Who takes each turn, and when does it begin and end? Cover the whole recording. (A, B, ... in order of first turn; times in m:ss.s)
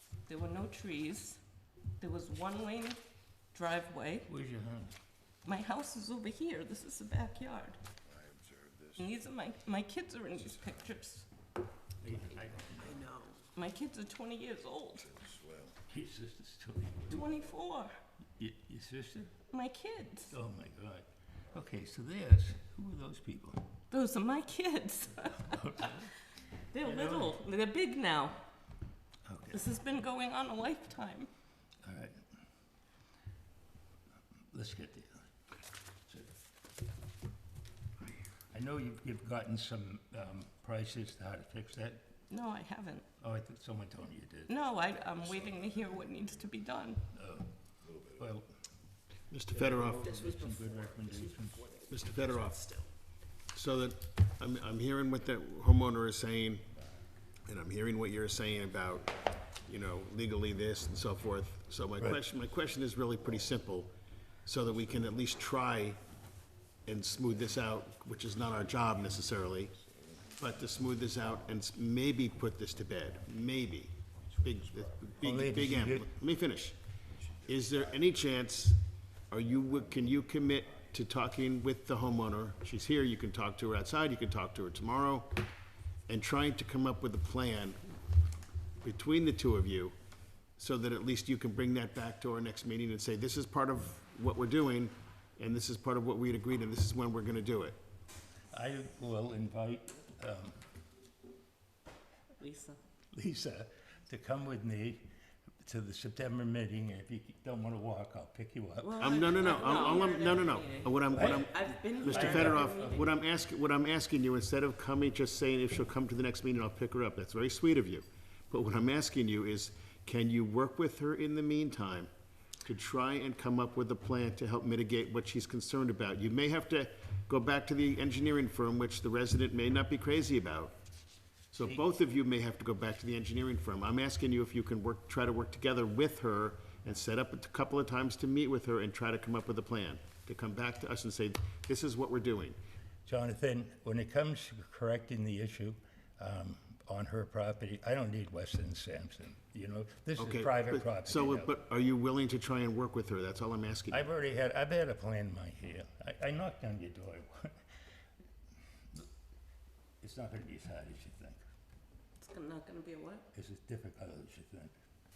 0:00.3-0:01.4 A
0:02.0-0:03.0 A
0:03.5-0:04.3 A
0:04.3-0:04.9 B
0:05.4-0:07.8 A
0:08.1-0:09.1 C
0:09.0-0:11.3 A
0:12.0-0:13.2 B
0:13.5-0:15.2 A
0:15.1-0:15.8 C
0:15.8-0:17.3 B
0:17.1-0:17.9 A
0:18.4-0:19.3 B
0:19.5-0:20.4 A
0:20.3-0:23.6 B
0:23.9-0:26.0 A
0:25.4-0:26.1 B
0:26.7-0:28.4 A
0:26.8-0:27.4 B
0:29.3-0:29.6 B
0:29.5-0:31.3 A
0:31.8-0:32.2 B
0:34.5-0:35.2 B
0:38.5-0:42.0 B
0:42.3-0:43.0 A
0:43.2-0:45.6 B
0:44.5-0:47.0 A
0:47.1-0:47.5 B
0:48.2-0:48.5 B
0:49.3-0:50.1 D
0:49.5-0:51.7 B
0:50.0-0:52.9 A
0:51.9-0:52.6 D
0:53.5-0:56.7 D
0:57.5-0:59.2 D
0:59.7-1:03.9 D
1:04.5-1:06.0 D
1:06.9-1:09.7 D
1:08.5-1:10.4 C
1:10.4-1:16.8 D
1:15.2-1:16.1 B
1:17.5-1:18.8 D
1:19.3-1:25.3 D
1:26.1-1:27.8 D
1:28.8-1:29.9 D
1:30.6-1:37.8 D
1:38.5-1:40.6 B
1:42.4-1:42.8 A
1:43.1-1:45.0 B
1:45.6-1:49.6 B
1:48.8-1:53.1 A
1:49.0-2:02.1 D
1:51.1-1:53.1 B
2:02.6-2:10.7 D
2:11.5-2:22.6 D
2:23.1-2:31.5 B
2:30.2-2:34.0 D
2:33.9-2:37.6 B
2:40.0-2:41.4 B
2:42.2-2:43.3 A
2:43.3-2:44.7 B